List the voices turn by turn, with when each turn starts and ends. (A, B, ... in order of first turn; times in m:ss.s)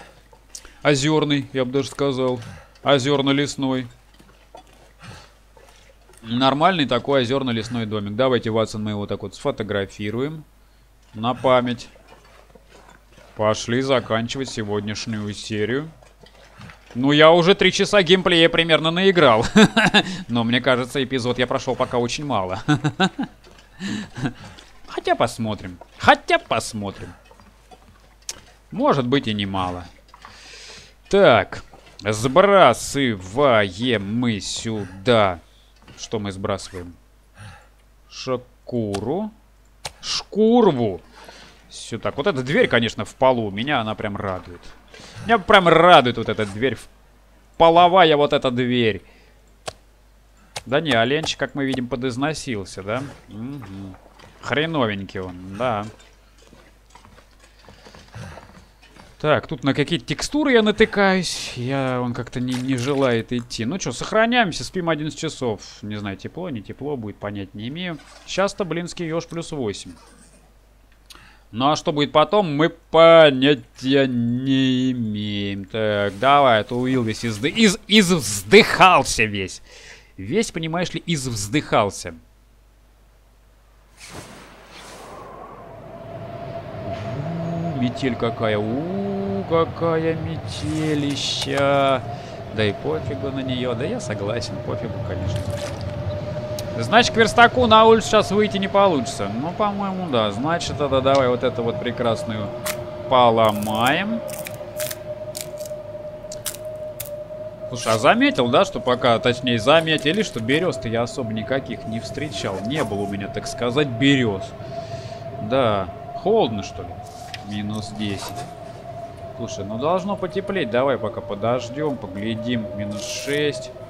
0:00.8-0:03.9 A
0:06.2-0:10.4 A
0:11.1-0:11.9 A
0:13.4-0:15.9 A
0:16.9-0:23.3 A
0:23.8-0:24.3 A
0:24.9-0:27.2 A
0:28.7-0:29.9 A
0:31.1-0:35.4 A
0:36.0-0:37.0 A
0:38.1-0:39.3 A
0:40.0-0:41.0 A
0:41.7-0:44.7 A
0:45.2-0:46.9 A
0:47.6-0:49.0 A
0:50.6-0:55.9 A
0:59.2-1:10.0 A
1:11.5-1:19.6 A
1:20.2-1:22.2 A
1:26.8-1:35.6 A
1:36.7-1:42.5 A
1:43.1-1:44.2 A
1:47.7-1:54.6 A
1:55.4-1:58.4 A
1:59.4-2:03.7 A